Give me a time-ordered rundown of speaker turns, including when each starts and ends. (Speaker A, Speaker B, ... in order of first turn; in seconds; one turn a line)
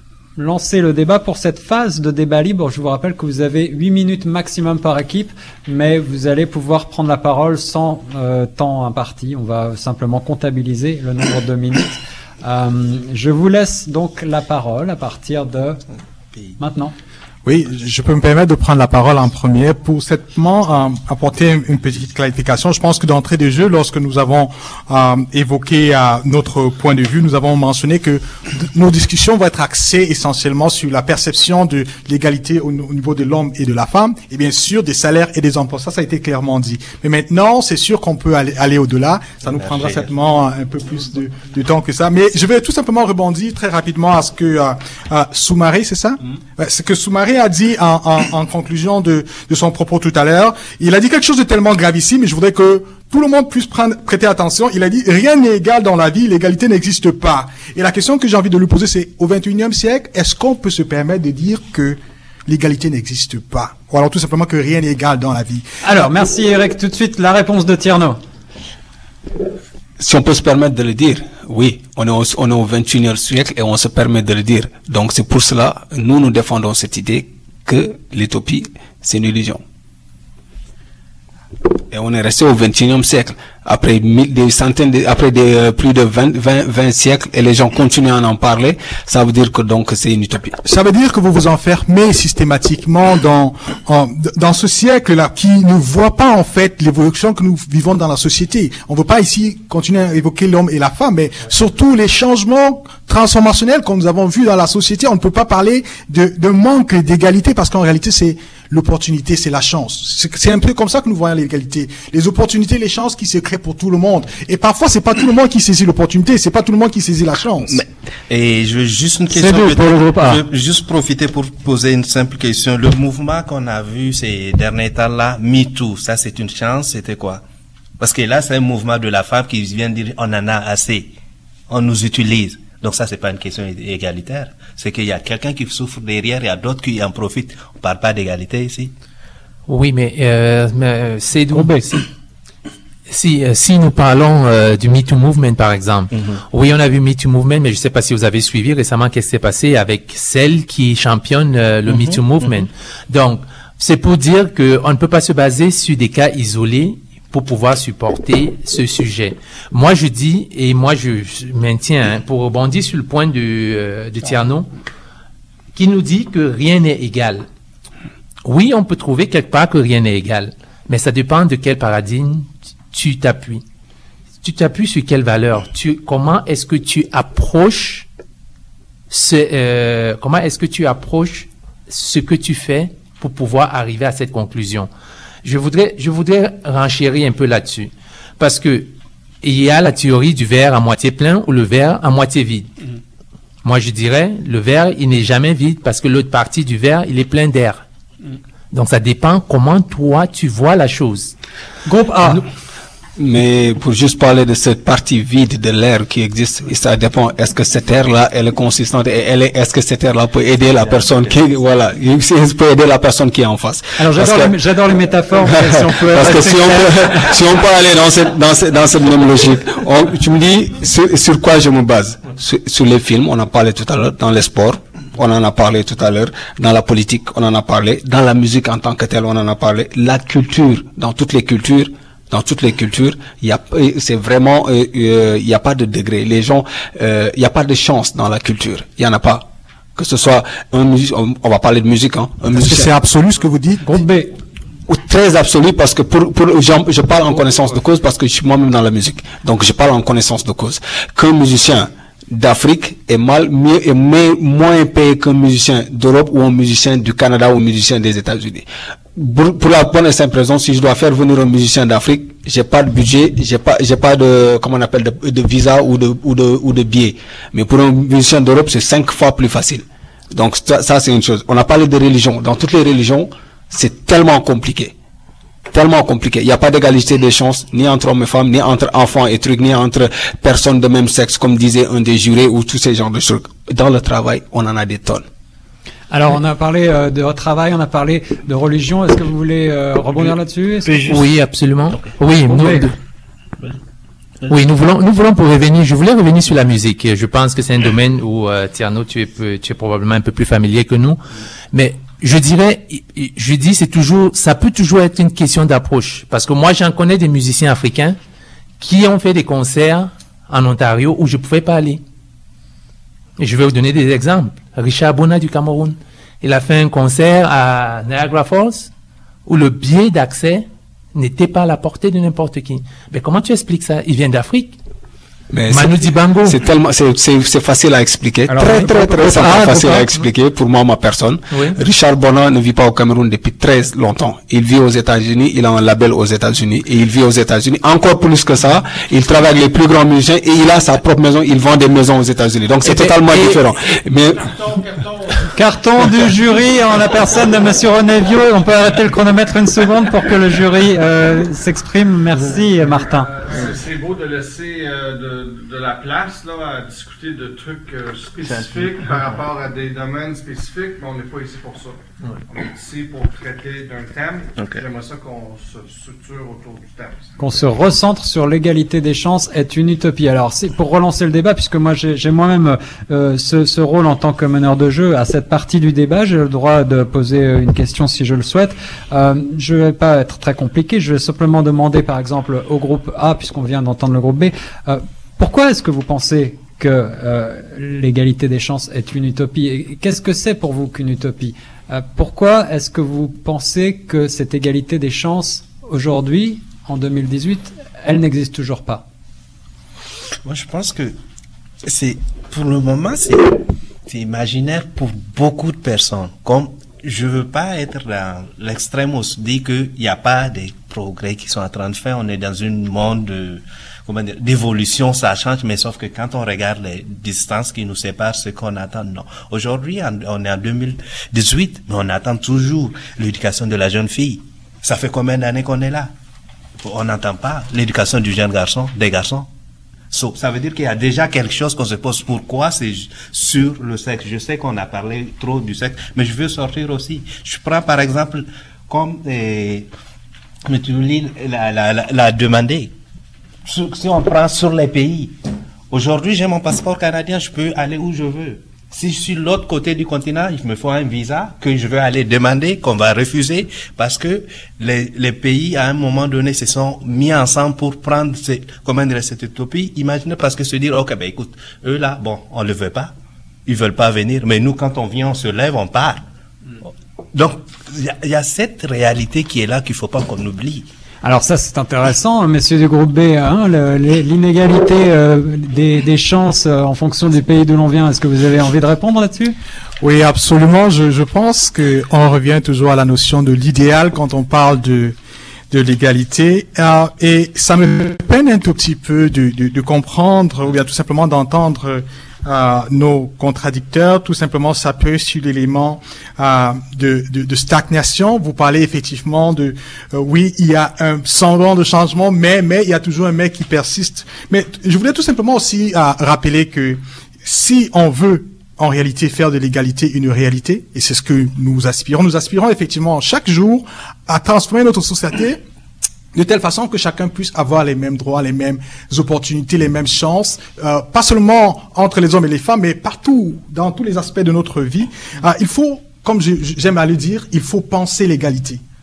Speaker A: 0.4-15.8
Speaker A: 16.6-16.9
Speaker B: 17.4-65.7
Speaker C: 39.5-40.1
Speaker A: 65.8-68.2
Speaker D: 70.0-79.6
Speaker D: 81.9-90.5
Speaker B: 90.6-117.8
Speaker C: 117.7-127.4
Speaker A: 119.3-120.4
Speaker C: 128.0-131.1
Speaker C: 131.7-138.9
Speaker E: 139.7-142.0
Speaker A: 141.5-141.9
Speaker E: 143.1-164.7
Speaker C: 146.1-146.4
Speaker C: 151.9-152.7
Speaker E: 165.7-167.5
Speaker E: 168.4-173.6
Speaker E: 174.4-178.1
Speaker E: 179.1-184.9
Speaker E: 185.4-192.7
Speaker E: 193.6-197.8
Speaker E: 198.7-201.3
Speaker A: 201.8-202.4
Speaker D: 203.2-214.6
Speaker A: 214.0-217.3
Speaker D: 215.4-242.9
Speaker B: 242.5-244.1
Speaker A: 243.8-244.3
Speaker D: 244.9-274.9
Speaker D: 275.7-285.2
Speaker A: 286.1-291.2
Speaker C: 290.9-291.2
Speaker E: 291.1-293.0
Speaker A: 292.5-292.9
Speaker E: 294.5-301.2
Speaker E: 301.7-308.2
Speaker E: 308.8-312.0
Speaker E: 313.4-318.9
Speaker E: 319.4-324.8
Speaker D: 325.5-344.5
Speaker E: 325.7-326.6
Speaker A: 328.5-330.1
Speaker E: 331.5-331.8
Speaker E: 342.8-343.6
Speaker F: 344.2-345.5
Speaker A: 345.5-353.3
Speaker F: 353.1-367.7
Speaker C: 358.4-358.9
Speaker C: 364.6-364.8
Speaker A: 367.4-399.0
Speaker C: 400.4-401.1
Speaker C: 401.8-426.1
Speaker C: 426.8-429.5
Speaker C: 430.1-439.9
Speaker C: 440.6-442.9
Speaker C: 443.6-445.3
Speaker C: 445.9-463.1
Speaker C: 463.6-466.2
Speaker C: 467.3-470.9
Speaker A: 471.2-479.6
Speaker B: 480.0-485.1
Speaker B: 485.7-515.6
Speaker B: 516.3-528.8